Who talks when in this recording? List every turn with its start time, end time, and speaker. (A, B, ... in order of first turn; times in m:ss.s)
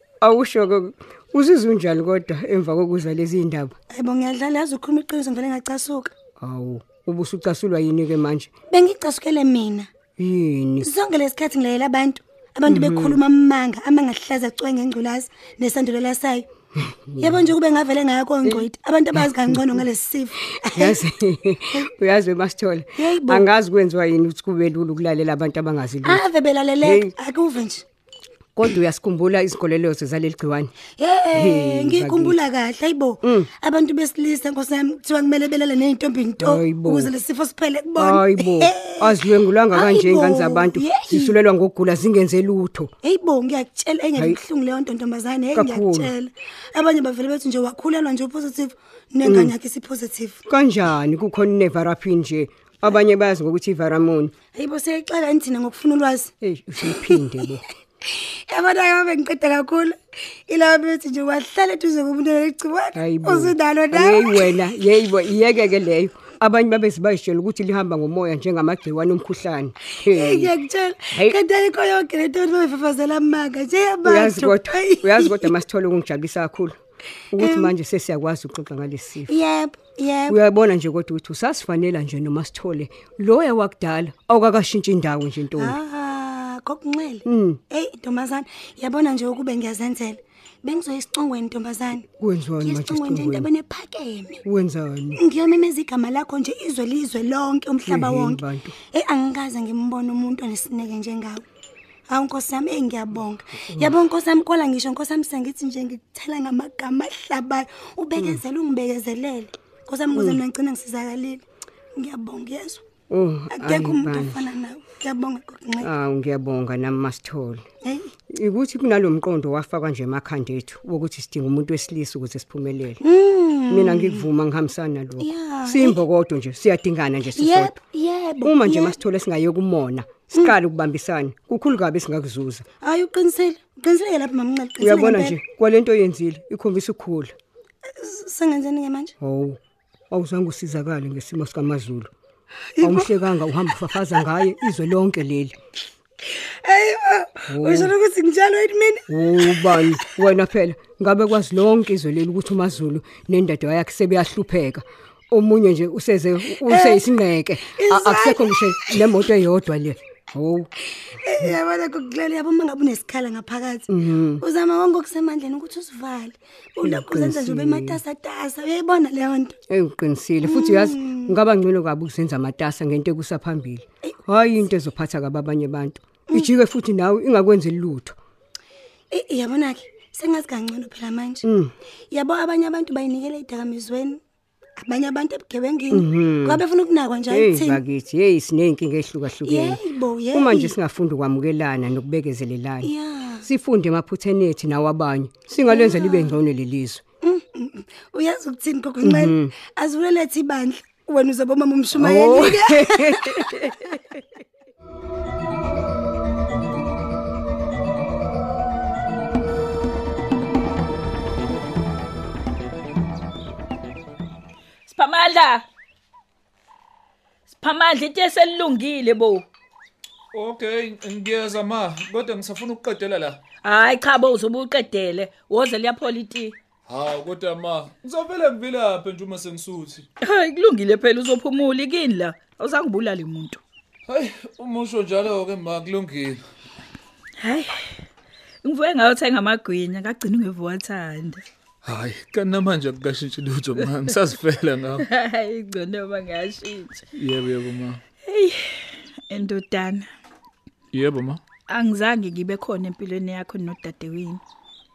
0:00.2-0:03.7 A
0:03.9-0:06.1 B
0:06.4-0:08.5 A
0:08.7-0:09.9 B
0:10.2-0:10.9 A
0:10.8-0:16.5 B
0:12.7-0:13.2 A
0:16.8-0:17.5 A
0:17.2-0:21.0 B
0:18.4-0:19.6 A
0:20.7-0:26.2 A
0:23.0-0:23.5 B
0:26.0-0:27.8 B
0:26.8-0:27.1 A
0:28.6-0:30.7 A
0:31.0-0:39.2 B
0:31.3-0:32.4 A
0:33.2-0:33.5 A
0:36.4-0:37.1 A
0:38.0-0:42.9 A
0:39.7-0:41.4 B
0:43.0-0:50.4 B
0:45.5-0:46.1 A
0:49.2-0:49.5 A
0:50.5-0:54.3 A
0:54.5-0:56.3 B
0:56.4-0:57.6 A
0:58.1-1:00.0 B
1:00.5-1:04.6 B
1:02.9-1:10.5 A
1:10.1-1:15.6 B
1:14.0-1:16.8 A
1:17.3-1:19.4 A
1:17.4-1:17.7 B
1:19.3-1:20.4 B
1:20.3-1:25.8 A
1:25.6-1:32.0 B
1:27.2-1:27.6 A
1:32.2-1:33.5 A
1:32.6-1:34.4 B
1:34.4-1:35.2 A
1:35.2-1:41.4 B
1:37.8-1:38.7 A
1:42.1-1:52.8 B
1:43.7-1:43.9 A
1:48.2-1:48.4 A
1:50.1-1:50.4 A
1:53.1-1:54.4 A
1:53.5-1:55.9 B
1:55.8-1:57.6 A
1:57.8-1:58.1 B
1:58.3-2:03.0 A
2:03.0-2:04.2 B
2:03.7-2:07.7 A
2:05.2-2:06.0 B
2:07.4-2:09.0 B
2:08.4-2:12.6 A
2:12.8-2:15.4 B
2:14.8-2:17.3 A
2:18.0-2:19.1 B
2:19.2-2:19.6 A
2:20.1-2:22.1 A
2:22.8-2:23.1 B
2:22.8-2:25.6 A
2:26.3-2:29.9 B
2:27.5-2:27.9 A
2:29.1-2:40.7 A
2:36.6-2:37.0 B
2:37.7-2:39.1 B
2:41.0-2:43.9 B
2:43.9-2:44.4 A
2:44.4-2:49.6 B
2:46.8-2:48.0 A
2:49.7-2:58.2 A
2:50.4-2:51.3 B
2:59.1-3:01.4 B
3:01.4-3:01.7 A
3:02.1-3:04.2 B
3:04.8-3:07.8 B
3:05.9-3:06.6 A
3:07.3-3:17.0 A
3:09.4-3:10.7 B
3:12.8-3:13.4 B
3:15.7-3:16.4 B
3:17.2-3:23.9 B
3:19.0-3:19.5 A
3:21.9-3:23.6 A
3:34.9-3:35.6 C
3:37.5-3:39.5 C
3:40.3-3:43.4 D
3:43.6-3:46.6 C
3:46.9-3:50.0 D
3:50.2-3:53.6 C
3:54.1-3:56.4 D
3:57.4-3:57.9 C
3:58.6-4:01.4 C
4:01.8-4:05.0 D
4:05.0-4:07.0 C
4:07.2-4:08.0 D
4:08.2-4:10.0 C
4:10.9-4:11.4 D
4:11.7-4:14.4 C